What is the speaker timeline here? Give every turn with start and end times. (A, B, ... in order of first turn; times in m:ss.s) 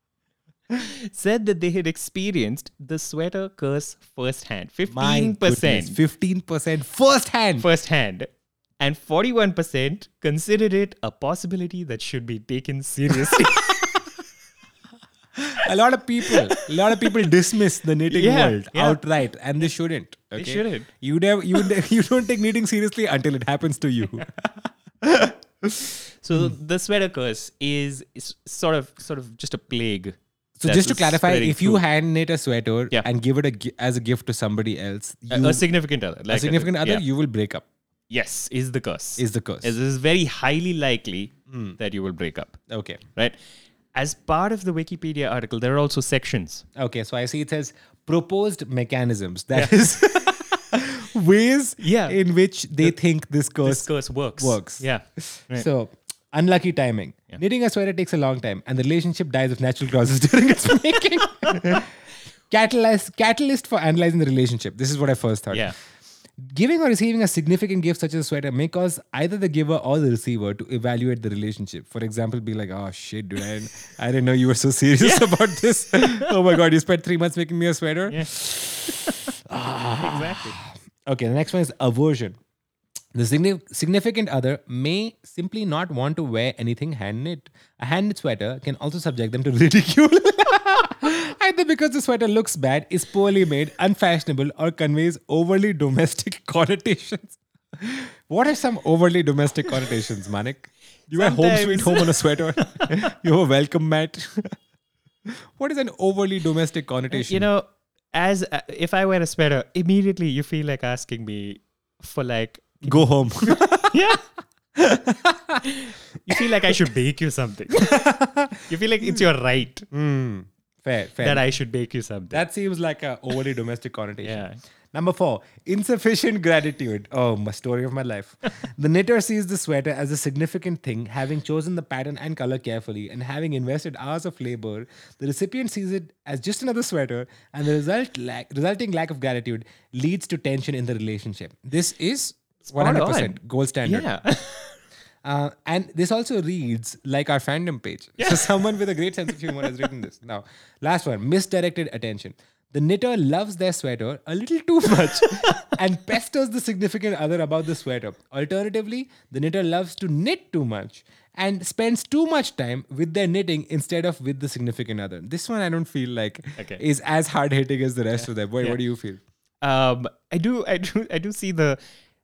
0:00.7-0:06.0 A
0:04.9-0:07.7 B
0:07.6-0:13.8 A
0:13.3-0:13.6 B
0:15.4-0:26.5 B
0:16.3-0:17.1 A
0:18.1-0:19.0 A
0:20.4-0:20.9 A
0:26.2-0:31.8 A
0:30.6-0:35.7 B
0:35.3-0:37.0 A
0:36.3-0:37.6 B
0:38.1-0:42.6 A
0:39.2-0:39.8 B
0:41.5-0:41.8 B
0:42.7-0:43.0 B
0:43.9-0:46.6 A
0:46.8-1:01.9 B
0:51.8-0:52.2 A
0:53.6-0:55.7 A
1:01.5-1:01.8 A
1:02.5-1:05.7 B
1:06.4-1:22.4 B
1:15.0-1:15.4 A
1:16.0-1:16.3 A
1:18.9-1:19.2 A
1:20.0-1:20.6 A
1:23.1-1:44.6 B
1:41.1-1:42.9 A
1:45.3-1:47.5 B
1:47.1-1:53.0 A
1:52.8-1:54.0 B
1:53.8-1:54.2 A
1:54.8-1:55.7 B
1:55.7-1:58.1 A
1:57.8-1:59.2 B
1:58.7-1:59.9 A
1:59.9-2:01.5 B
2:01.2-2:02.4 A
2:02.3-2:24.1 B
2:04.2-2:04.6 A
2:22.7-2:24.8 A
2:25.2-2:49.2 B
2:28.2-2:28.6 A
2:29.4-2:29.7 A
2:35.2-2:35.7 A
2:46.6-2:46.8 A
2:48.1-2:48.8 A
2:49.6-2:51.8 A